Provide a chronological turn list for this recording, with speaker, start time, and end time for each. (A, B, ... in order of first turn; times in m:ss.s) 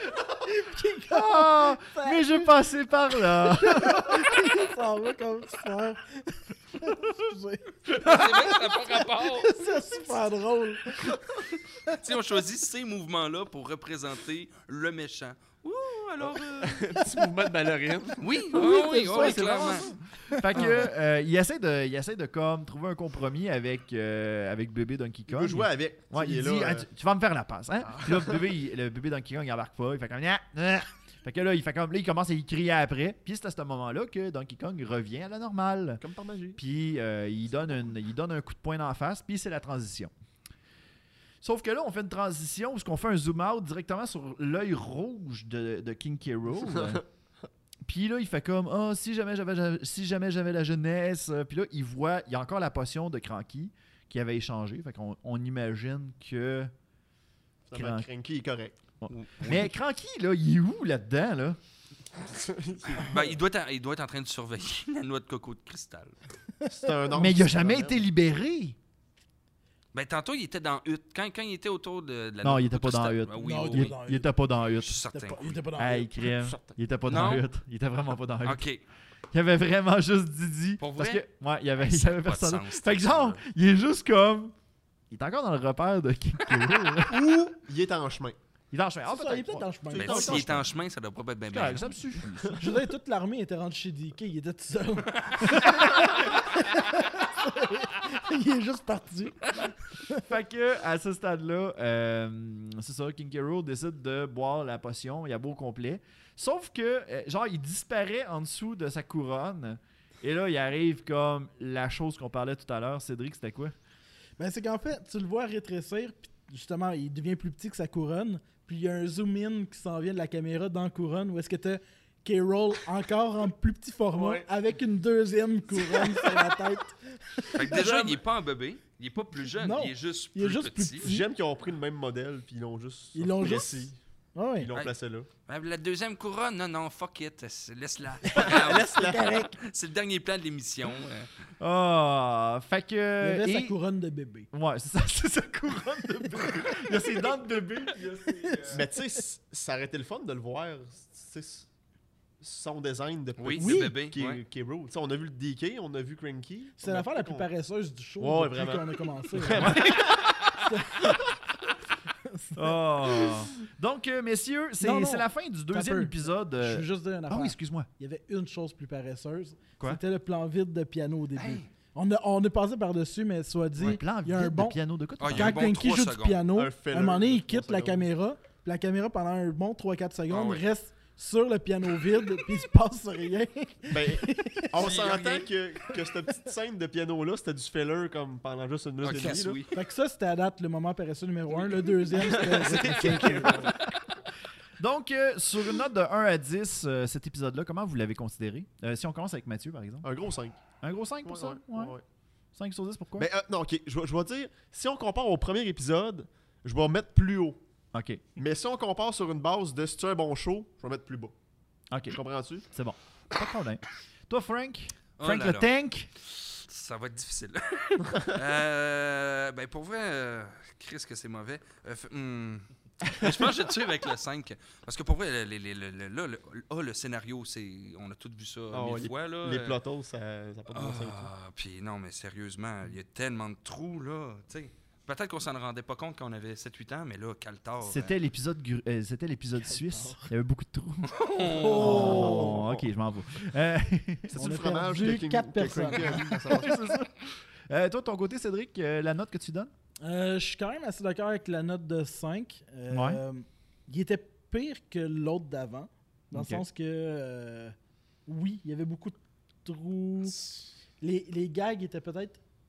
0:00.4-0:02.5 A
0:01.0-0:04.5 B
0:03.4-0:08.6 A
0:07.9-0:09.6 C
0:09.4-0:11.2 A
0:11.8-0:17.0 C
0:16.2-0:18.5 D
0:18.2-0:19.9 C
0:18.5-0:36.0 B
0:20.5-0:20.9 C
0:25.3-0:26.8 D
0:36.0-0:36.6 D
0:36.6-0:40.1 B
0:41.4-0:47.0 B
0:46.5-0:47.0 D
0:47.8-0:56.7 B
0:57.7-0:58.8 D
0:57.7-0:58.0 B
0:59.0-1:01.6 B
0:59.1-0:59.7 C
1:02.2-1:03.4 D
1:03.0-1:06.2 C
1:06.7-1:08.0 D
1:07.1-1:08.8 B
1:09.9-1:13.9 C
1:12.4-1:15.0 B
1:13.4-1:14.3 A
1:14.8-1:15.6 C
1:15.1-1:16.1 A
1:15.8-1:18.6 B
1:16.4-1:16.7 D
1:17.1-1:17.4 C
1:18.4-1:18.8 C
1:19.3-1:24.5 B
1:20.8-1:23.4 C
1:25.1-1:27.2 B
1:27.1-1:28.4 D
1:28.7-1:30.7 B
1:29.1-1:30.4 A
1:29.9-1:30.5 D
1:30.0-1:31.9 C
1:31.5-1:32.8 B
1:32.6-1:39.5 A
1:35.1-1:36.2 C
1:40.0-1:40.2 A
1:40.2-1:53.7 B
1:54.4-2:07.6 A
2:07.5-2:11.0 C
2:07.6-2:08.2 D
2:09.5-2:11.2 A
2:11.0-2:14.0 D
2:13.1-2:14.7 A
2:14.6-2:15.3 D
2:15.5-2:21.3 C
2:18.2-2:19.4 D
2:19.0-2:19.5 A
2:21.6-2:23.7 B
2:23.2-2:24.5 A
2:24.5-2:28.8 B
2:26.7-2:27.3 A
2:28.2-2:28.9 A
2:28.7-2:31.7 D
2:32.4-2:37.5 D
2:33.4-2:34.4 C
2:33.6-2:34.0 A
2:36.8-2:39.7 A
2:38.2-2:40.3 D
2:39.5-2:40.5 C
2:39.6-2:40.1 B
2:40.6-2:40.9 A
2:42.2-2:42.6 A
2:42.5-2:47.9 B
2:44.8-3:04.7 A
2:51.4-2:51.7 C
2:53.8-2:55.7 B
2:55.2-2:56.5 C
2:56.5-2:58.1 D
3:00.3-3:00.6 C
3:03.9-3:09.6 D
3:04.7-3:05.5 C
3:09.0-3:09.7 C
3:09.7-3:13.7 A
3:12.1-3:13.9 D
3:14.8-3:20.1 B
3:20.0-3:20.6 D
3:20.8-3:22.0 B
3:21.2-3:22.0 D
3:22.5-3:23.3 B
3:23.2-3:27.6 D
3:27.9-3:28.2 B
3:28.4-3:31.3 D
3:31.9-3:36.1 B
3:32.1-3:32.6 D
3:35.2-3:49.8 C
3:48.7-3:51.3 D
3:50.7-3:58.1 C
3:57.8-4:01.1 B
3:59.6-4:00.2 A
4:01.1-4:02.3 C
4:01.4-4:02.6 A
4:01.6-4:02.8 D
4:01.7-4:04.5 B
4:04.3-4:06.8 D
4:04.3-4:06.6 A
4:06.5-4:09.7 B
4:10.0-4:17.7 A
4:12.9-4:13.2 B
4:16.3-4:16.6 B
4:18.2-4:20.4 A
4:21.0-4:22.4 A